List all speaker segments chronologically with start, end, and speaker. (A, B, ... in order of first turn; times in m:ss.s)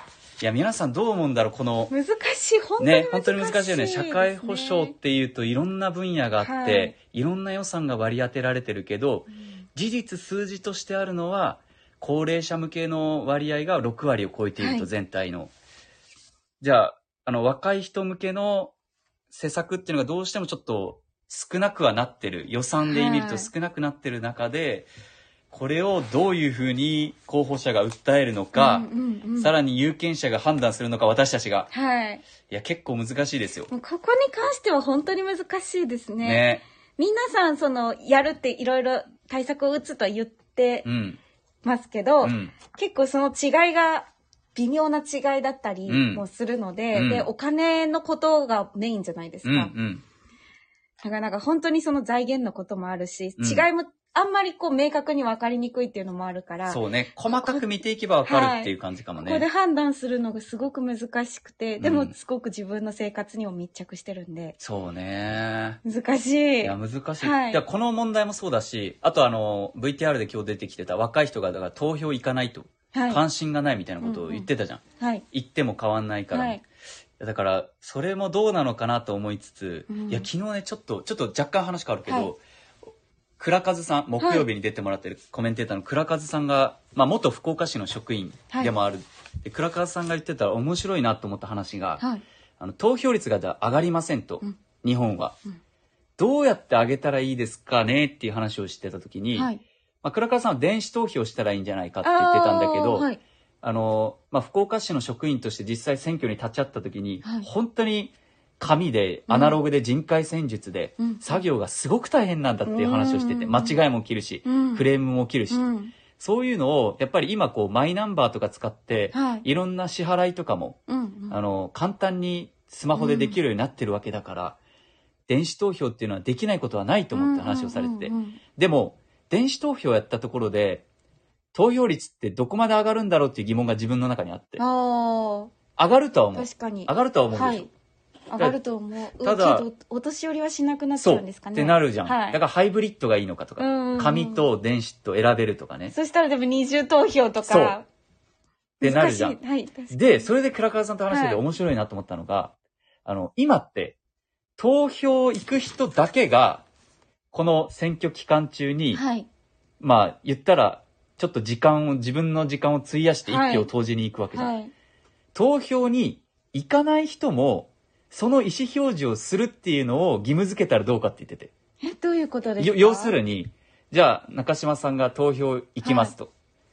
0:00.4-0:01.9 A
0:01.9-0:04.9 B
0:02.8-0:15.5 A
0:06.4-0:06.9 B
0:14.6-0:14.9 B
0:16.6-0:18.7 A
0:19.3-0:24.9 A
0:22.8-0:23.5 B
0:25.5-0:31.7 A
0:28.6-0:29.5 B
0:31.7-0:32.2 B
0:32.5-0:33.7 A
0:33.7-0:40.9 B
0:36.2-0:36.6 A
0:40.8-0:41.2 A
0:41.6-0:49.7 B
0:42.2-0:42.6 A
0:45.9-0:46.2 A
0:46.9-0:47.3 A
0:49.4-0:50.0 A
0:51.0-0:57.7 B
0:53.4-0:53.7 A
0:56.7-0:59.4 A
0:58.2-1:04.6 B
1:01.8-1:02.1 A
1:04.6-1:05.8 A
1:05.8-1:07.6 B
1:06.6-1:16.6 A
1:12.9-1:13.2 B
1:14.0-1:14.5 B
1:16.3-1:16.6 B
1:17.2-1:22.4 A
1:19.9-1:20.3 B
1:23.4-1:32.0 A
1:24.2-1:24.5 B
1:32.6-1:35.4 A
1:36.2-1:39.5 A
1:39.4-1:39.6 B
1:40.0-1:43.1 A
1:42.0-1:43.2 B
1:43.6-1:55.6 A
1:47.2-1:47.5 B
1:49.3-1:49.6 B
1:51.0-1:51.5 B
1:52.7-1:53.8 B
1:54.4-1:54.9 B
1:55.5-1:55.9 B
1:56.2-2:00.8 A
1:59.1-1:59.4 B
2:00.9-2:01.4 B
2:01.3-2:04.6 A
2:02.9-2:03.4 B
2:05.3-2:10.8 A
2:07.1-2:08.4 B
2:11.5-2:14.6 A
2:14.6-2:15.5 B
2:15.8-2:17.7 A
2:16.3-2:17.7 B
2:18.3-2:22.4 B
2:19.2-2:19.7 A
2:21.0-2:25.9 A
2:23.6-2:24.5 B
2:25.9-2:27.8 B
2:27.4-2:27.8 A
2:28.8-2:29.4 A
2:28.8-2:30.3 B
2:29.9-2:32.5 A
2:31.1-2:31.4 B
2:33.0-2:34.0 A
2:34.6-2:36.7 A
2:37.3-2:39.0 A
2:38.9-2:39.3 B
2:39.8-2:44.5 A
2:43.3-2:43.7 B
2:44.3-2:44.7 B
2:45.4-2:51.5 A
2:51.8-2:53.2 B
2:52.6-2:56.3 A
2:55.8-2:56.1 B